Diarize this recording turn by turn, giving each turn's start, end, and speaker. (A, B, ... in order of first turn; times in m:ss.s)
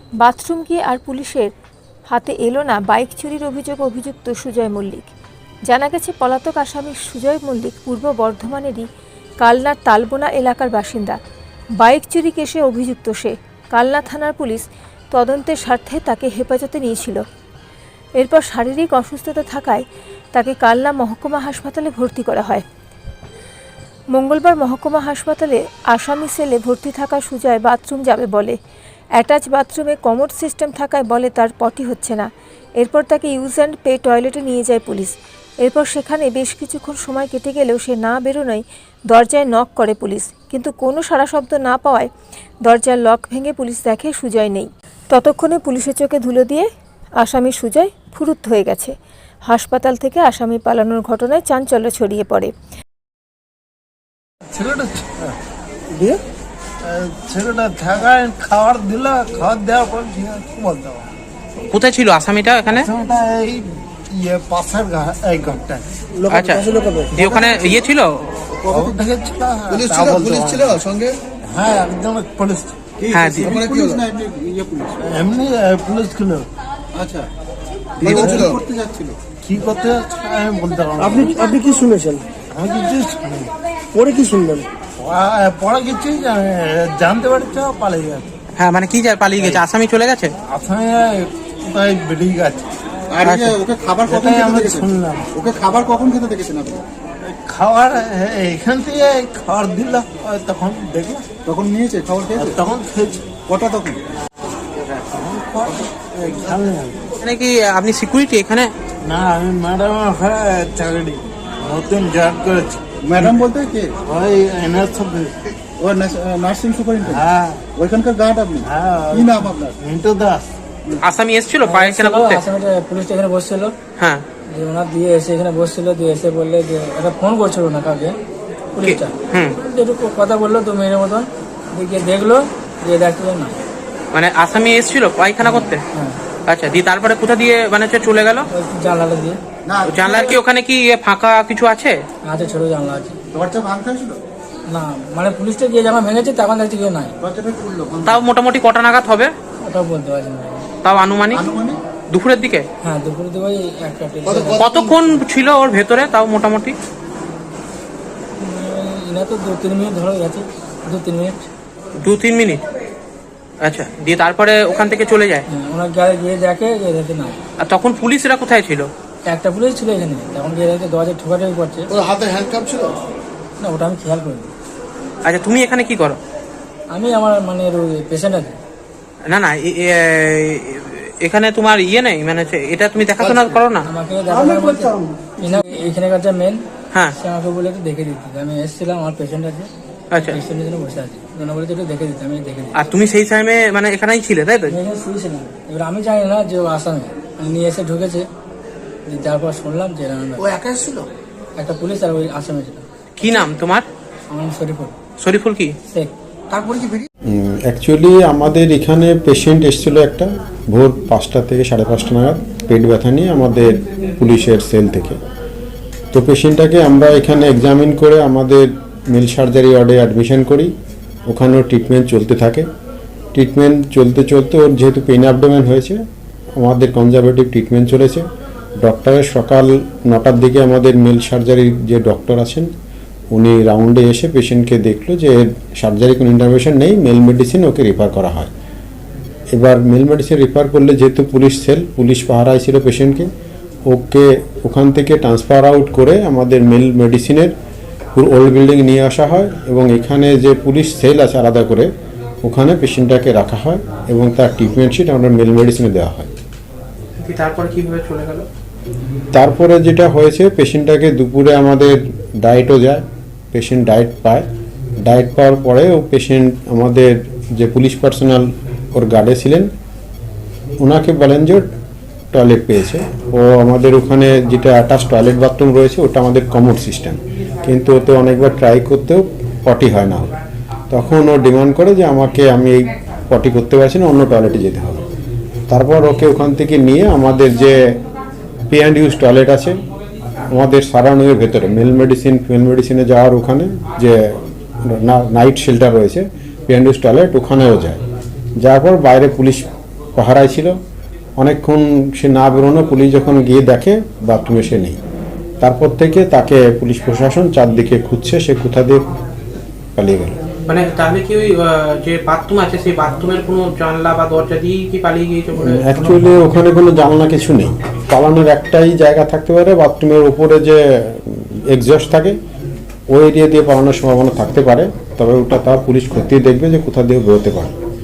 0:00.2-0:01.5 A
0:02.1-0:05.1 A
0:05.7-0:08.9 A
0:09.4-0:11.2 A
0:11.8-0:17.2 A
0:18.2-0:22.6 A
0:24.1-0:28.6 A
0:29.2-0:42.1 A
0:42.6-0:46.7 A
0:47.2-0:48.9 A
0:49.5-0:52.5 A
0:54.5-0:55.4 B
0:56.8-1:01.1 B
1:01.7-1:02.9 C
1:02.7-1:05.9 B
1:06.2-1:07.1 D
1:06.3-1:08.5 C
1:07.2-1:07.7 E
1:08.6-1:09.0 E
1:08.7-1:10.8 B
1:09.7-1:11.2 E
1:11.5-1:14.0 B
1:13.0-1:15.0 E
1:13.1-1:13.6 C
1:15.0-1:16.5 B
1:16.9-1:17.3 E
1:18.0-1:18.6 B
1:18.0-1:19.2 E
1:19.3-1:21.4 B
1:21.3-1:22.2 D
1:22.4-1:23.5 B
1:24.0-1:24.7 D
1:25.0-1:28.3 B
1:28.6-1:30.3 C
1:29.4-1:29.6 B
1:30.4-1:32.7 B
1:33.1-1:36.8 E
1:33.2-1:33.6 C
1:34.1-1:35.3 B
1:37.2-1:41.3 B
1:41.5-1:42.6 E
1:42.4-1:43.4 B
1:43.4-1:44.0 E
1:44.8-1:47.1 B
1:47.2-1:48.7 C
1:49.0-1:53.5 B
1:53.0-1:53.9 E
1:54.0-1:55.4 B
1:55.8-1:59.8 E
1:57.0-1:57.6 B
1:58.6-2:00.4 B
2:01.0-2:02.4 C
2:01.6-2:03.8 F
2:04.0-2:04.2 C
2:04.5-2:08.2 F
2:08.8-2:13.6 F
2:08.8-2:09.6 C
2:14.1-2:15.8 C
2:15.4-2:16.2 F
2:16.5-2:18.5 C
2:18.5-2:19.4 F
2:19.7-2:20.4 E
2:19.9-2:22.0 C
2:22.2-2:23.2 F
2:23.3-2:24.2 E
2:24.7-2:27.2 F
2:27.2-2:28.2 E
2:28.0-2:29.3 C
2:29.6-2:30.7 F
2:30.8-2:31.4 C
2:31.3-2:31.8 E
2:32.1-2:32.7 C
2:32.8-2:34.6 F
2:34.3-2:34.9 E
2:34.6-2:36.8 C
2:38.4-2:41.4 F
2:42.0-2:42.6 C
2:43.6-2:45.4 C
2:45.5-2:47.4 F
2:47.6-2:48.9 C
2:49.3-2:51.9 F
2:51.9-2:53.0 E
2:53.6-2:54.5 F
2:55.2-2:56.2 C
2:56.9-2:58.6 F
2:59.3-3:03.8 C
3:03.2-3:03.6 E
3:03.8-3:06.6 F
3:04.3-3:05.6 E
3:07.2-3:12.8 F
3:10.1-3:10.4 C
3:12.8-3:14.8 C
3:14.7-3:18.3 F
3:19.1-3:20.6 F
3:20.4-3:21.1 E
3:21.6-3:23.4 F
3:23.2-3:23.9 C
3:24.3-3:25.0 F
3:25.2-3:25.8 C
3:26.5-3:27.1 E
3:27.3-3:35.2 G
3:36.1-3:40.7 G
3:41.3-3:42.7 G
3:43.4-3:46.0 G
3:46.6-3:48.3 G
3:48.8-3:52.7 G
3:53.3-3:58.5 G
3:59.5-4:03.3 G
4:03.9-4:07.5 G
4:08.2-4:11.9 G
4:12.4-4:16.3 G
4:17.2-4:18.5 C
4:19.3-4:24.5 G
4:25.0-4:29.7 G
4:30.8-4:31.7 G
4:32.3-4:40.3 G
4:40.9-4:45.0 G
4:45.7-4:48.0 G
4:48.7-4:49.8 G
4:50.5-4:58.0 G
4:58.6-5:00.8 G
5:01.4-5:05.0 G
5:05.6-5:09.1 G
5:10.0-5:10.4 G
5:10.7-5:16.3 C
5:15.6-5:22.4 G
5:23.1-5:27.7 G